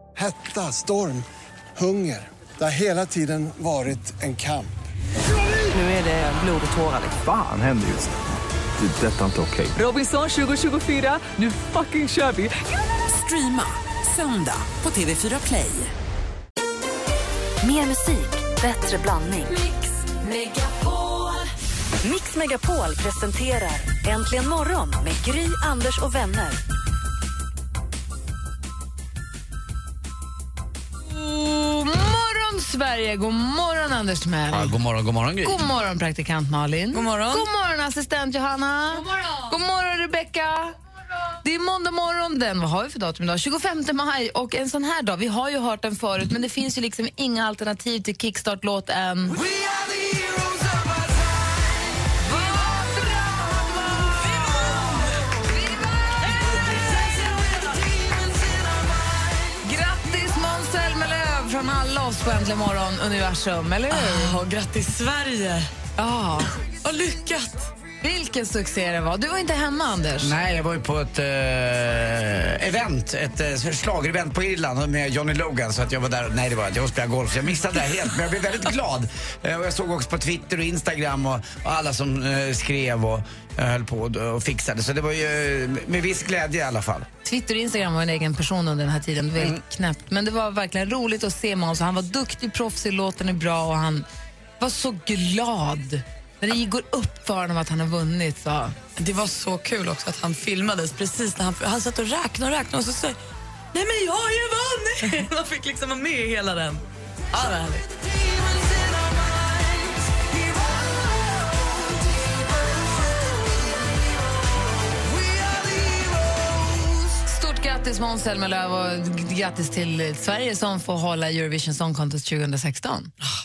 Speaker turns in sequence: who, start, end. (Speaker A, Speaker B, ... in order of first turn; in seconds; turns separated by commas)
Speaker A: 0.2-4.7, Speaker B: 7.1-9.8, Speaker C: 13.1-15.9, Speaker D: 17.6-19.6, Speaker D: 22.0-26.6, Speaker E: 31.1-34.7, Speaker F: 34.5-35.6, Speaker E: 35.4-40.8, Speaker G: 36.9-37.5, Speaker E: 41.4-49.4, Speaker A: 49.6-50.7, Speaker E: 52.2-56.4, Speaker E: 59.6-64.4, Speaker G: 63.9-65.7, Speaker E: 66.0-66.5, Speaker G: 66.8-67.7, Speaker E: 68.0-70.3, Speaker F: 70.2-87.1, Speaker E: 87.2-94.0, Speaker E: 94.6-98.7, Speaker G: 99.0-103.2, Speaker G: 103.7-107.9, Speaker E: 117.2-123.1